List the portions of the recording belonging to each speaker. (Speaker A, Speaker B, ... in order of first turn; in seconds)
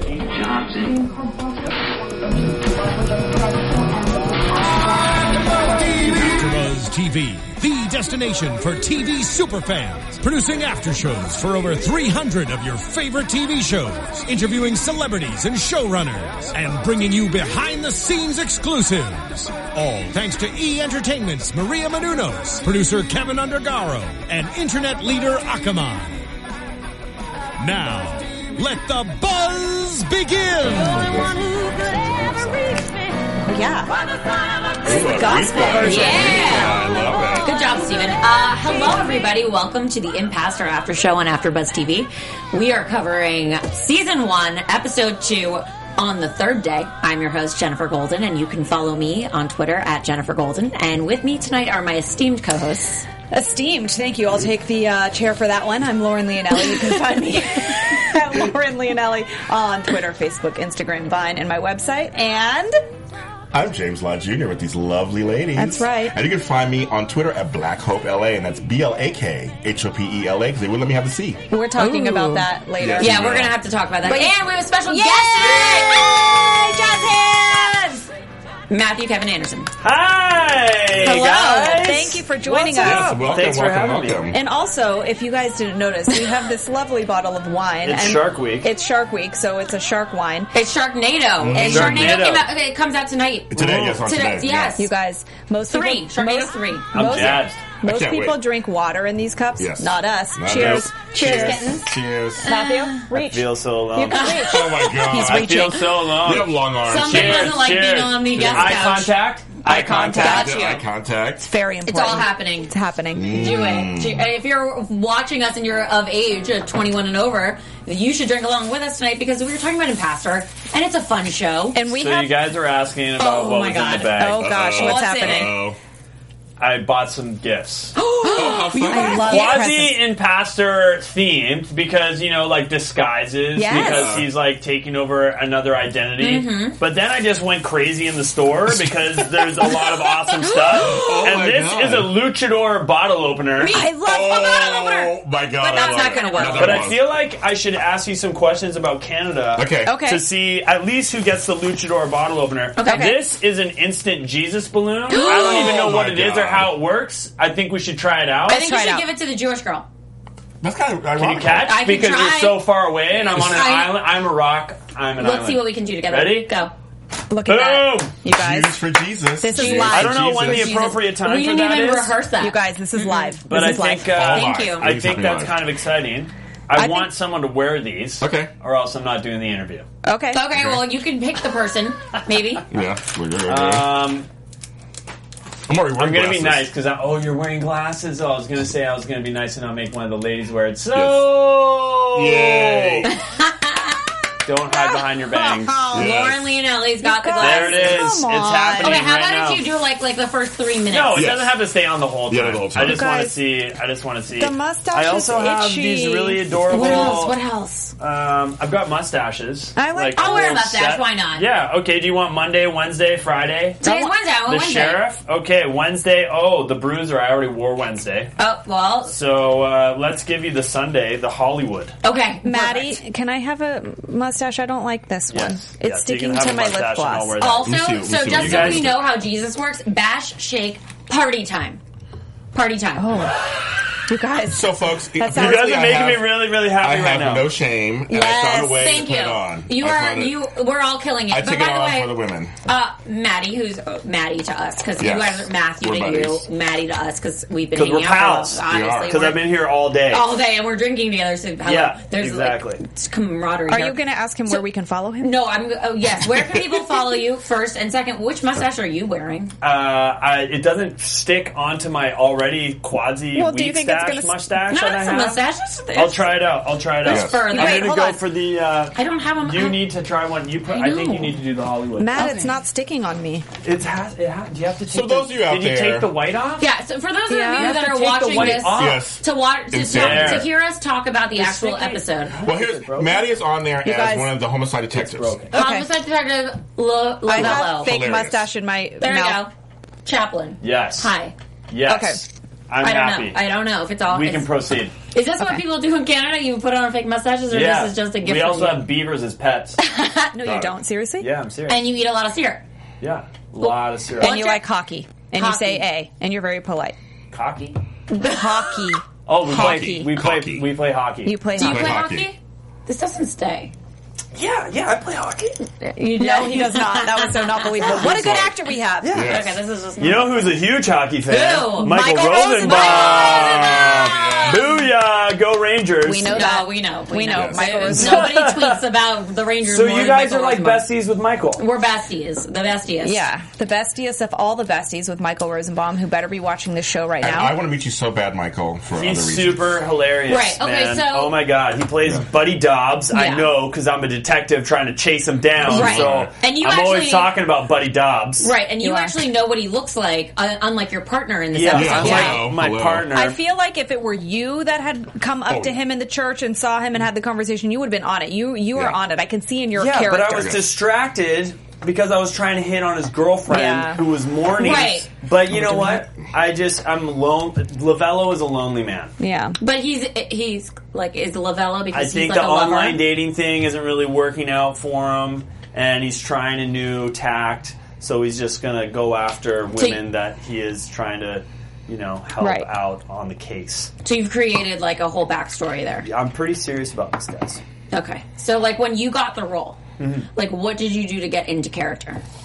Speaker A: 5.3-26.3, 27.6-31.4
Speaker B: 31.6-32.8, 79.8-84.3, 87.8-88.7, 91.5-92.5, 93.5-94.2, 96.9-97.6, 100.5-100.8, 103.3-104.3, 105.1-110.8, 121.9-124.5, 126.6-128.0, 129.2-143.8, 145.8-158.6, 161.2-166.5, 167.5-168.2, 169.6-172.2, 173.5-179.8, 183.5-184.3, 186.0-193.1, 194.4-196.0, 197.4-199.7, 200.9-207.4, 208.0-213.8, 214.4-218.3, 219.1-221.9, 225.3-229.0, 235.2-237.6, 247.8-250.3, 251.7-252.8, 259.6-265.4, 265.9-272.5, 273.6-276.7, 277.6-279.1, 279.9-280.5, 281.4-283.3, 284.9-285.5, 290.6-291.1, 291.7-293.4, 294.1-294.9, 297.5-299.8, 300.4-301.8, 303.0-304.4, 307.3-307.8, 309.3-311.4, 314.3-315.7, 317.8-318.4, 319.0-319.5, 320.0-326.4, 327.9-328.8, 329.7-331.6, 338.9-348.5, 351.5-353.4, 359.7-369.1, 371.9-383.9, 386.0-387.6, 390.0-390.3
Speaker C: 33.5-33.9, 34.9-36.7, 53.3-62.8, 65.6-66.2, 71.5-73.4, 74.0-78.0, 81.4-83.2, 84.3-90.5, 91.5-92.2, 94.8-101.9, 102.4-105.9, 109.9-110.6, 111.4-113.6, 121.7-122.4, 124.2-125.6, 128.3-130.1, 133.6-134.1, 143.7-145.0, 149.8-150.2, 152.8-153.2, 158.5-159.1, 167.3-168.8, 169.4-170.3, 172.4-174.2, 176.7-177.1, 180.0-180.5, 195.4-196.1, 197.0-199.0, 202.8-203.4, 204.4-207.2, 209.8-210.5, 213.8-214.1, 222.4-227.4, 233.0-236.2, 238.1-238.7, 253.7-255.3, 263.4-264.4, 267.5-268.2, 272.0-273.5, 277.3-278.5, 283.8-284.4, 285.5-285.9, 287.3-289.4, 291.9-292.2, 300.3-301.3, 304.2-307.0, 308.1-310.1, 311.2-312.0, 316.0-319.2, 321.8-324.0, 326.0-328.4, 333.0-337.6, 348.8-349.2, 352.0-352.4, 353.1-360.6, 363.5-364.0, 369.2-369.6, 382.4-382.7
Speaker D: 34.9-37.5, 63.5-71.4, 72.8-73.5, 82.8-84.4, 91.4-92.3, 93.5-94.8, 97.1-98.4, 99.6-102.5, 104.4-107.8, 108.3-109.0, 109.7-111.5, 113.2-114.3, 124.4-125.8, 128.3-129.3, 133.7-134.3, 138.7-139.7, 140.7-142.1, 144.1-147.0, 149.6-150.0, 155.2-156.7, 160.6-161.7, 168.3-170.8, 174.1-175.6, 178.2-178.5, 180.5-180.8, 182.7-183.9, 185.7-186.7, 190.9-191.4, 192.1-193.1, 195.9-196.6, 201.2-201.7, 202.3-203.1, 227.7-229.1, 234.5-240.4, 241.3-242.5, 245.0-246.4, 248.7-249.4, 267.0-267.4, 274.9-276.1, 278.4-280.5, 282.4-285.4, 287.3-288.5, 309.5-310.7, 311.6-312.3, 318.0-318.5, 319.1-319.6, 323.7-324.4, 327.3-327.6, 337.2-339.8, 345.6-346.3, 351.7-353.1, 355.5-355.8, 360.3-360.6, 365.5-365.9
Speaker E: 35.8-36.8, 37.4-53.1, 57.2-58.1, 71.8-72.5, 73.0-76.4, 78.7-79.7, 81.0-82.0, 90.5-94.9, 95.7-97.0, 101.2-101.9, 102.4-103.1, 104.1-105.3, 106.8-109.2, 109.7-110.8, 111.9-112.7, 113.3-121.8, 123.2-125.6, 128.0-129.6, 136.2-136.8, 143.6-146.9, 152.8-153.2, 155.1-155.7, 158.5-159.9, 161.6-164.0, 165.2-166.7, 169.6-173.3, 174.2-174.9, 180.3-182.7, 193.1-194.0, 195.7-198.1, 198.8-201.3, 206.7-207.9, 210.2-211.5, 213.8-215.0, 218.4-219.1, 222.0-223.0, 227.4-231.8, 232.5-233.2, 238.1-249.5, 250.1-254.0, 255.2-259.5, 264.7-266.4, 267.0-267.9, 268.9-269.8, 270.7-271.3, 276.6-282.4, 285.5-288.0, 289.0-289.5, 290.1-291.3, 292.8-294.5, 295.1-298.9, 299.8-300.4, 301.7-302.6, 303.6-304.6, 305.3-305.9, 308.2-308.8, 311.6-313.7, 316.1-318.2, 319.1-320.6, 321.3-324.8, 326.2-330.9, 331.6-333.2, 340.3-341.4, 343.1-343.5, 345.7-347.3, 348.4-352.4, 364.6-365.1, 369.6-373.0, 384.0-386.1, 387.9-389.8, 390.4-392.2